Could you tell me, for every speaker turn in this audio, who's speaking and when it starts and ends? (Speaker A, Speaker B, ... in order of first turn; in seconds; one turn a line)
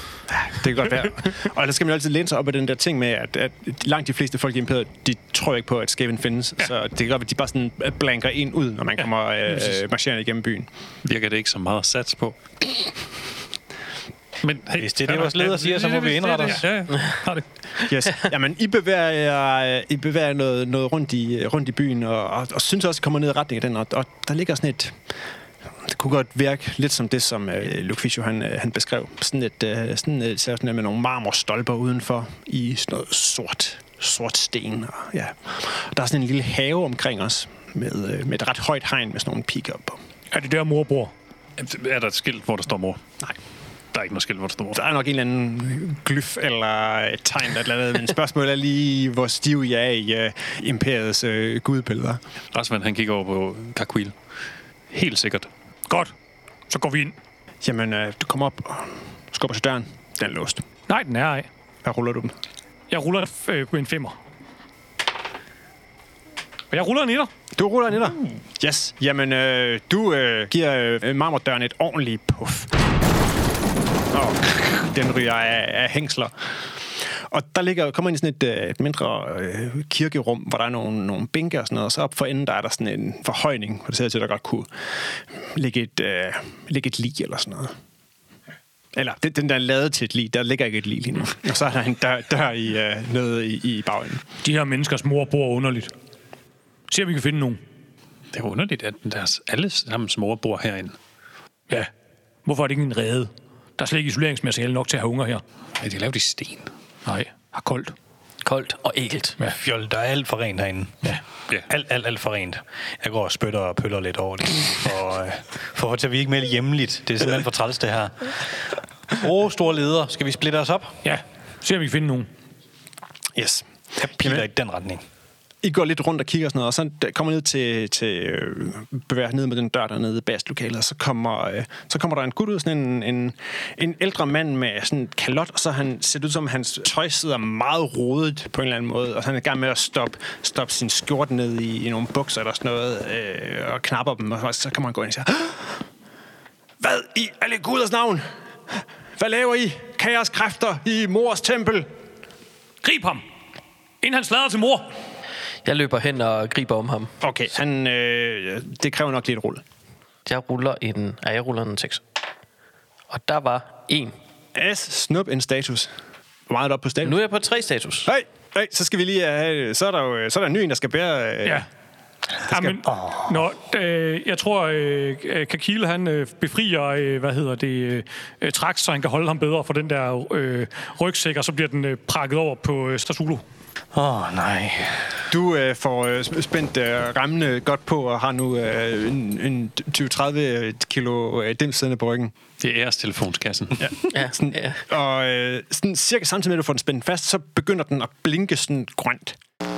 Speaker A: 0.3-10.7
Speaker B: 11.0-12.7
Speaker B: 14.4-17.4
Speaker C: 14.8-16.6
Speaker A: 17.9-25.0
Speaker A: 25.8-40.0
Speaker D: 40.3-41.1
Speaker B: 41.6-43.0
Speaker B: 43.9-44.8
Speaker A: 44.7-52.2
Speaker B: 52.5-54.1
Speaker B: 54.9-55.5
Speaker D: 56.7-57.1
Speaker A: 57.6-60.6
Speaker D: 60.9-61.5
Speaker A: 61.8-62.3
Speaker D: 62.9-64.2
Speaker D: 66.7-67.3
Speaker A: 67.5-72.7
Speaker A: 74.1-76.3
Speaker A: 77.0-84.7
Speaker A: 85.4-87.7
Speaker A: 88.9-94.2
Speaker D: 94.4-95.9
Speaker D: 96.9-97.6
Speaker B: 98.3-101.0
Speaker D: 102.4-105.4
Speaker B: 105.8-106.7
Speaker D: 107.0-107.9
Speaker E: 108.4-109.3
Speaker C: 109.5-111.0
Speaker C: 111.7-118.5
Speaker C: 119.1-120.9
Speaker D: 121.0-122.3
Speaker A: 123.3-124.5
Speaker C: 124.0-125.0
Speaker A: 125.6-145.8
Speaker A: 146.8-151.9
Speaker D: 152.8-153.2
Speaker D: 154.0-154.9
Speaker E: 155.6-157.1
Speaker A: 157.2-159.6
Speaker E: 160.2-162.0
Speaker E: 163.1-164.1
Speaker A: 164.5-165.9
Speaker A: 166.5-167.2
Speaker E: 167.0-168.1
Speaker A: 168.1-171.7
Speaker D: 172.5-183.4
Speaker A: 172.5-172.8
Speaker C: 172.9-173.3
Speaker C: 183.9-185.2
Speaker A: 185.3-192.3
Speaker B: 192.6-193.9
Speaker A: 193.8-199.4
Speaker E: 194.1-194.8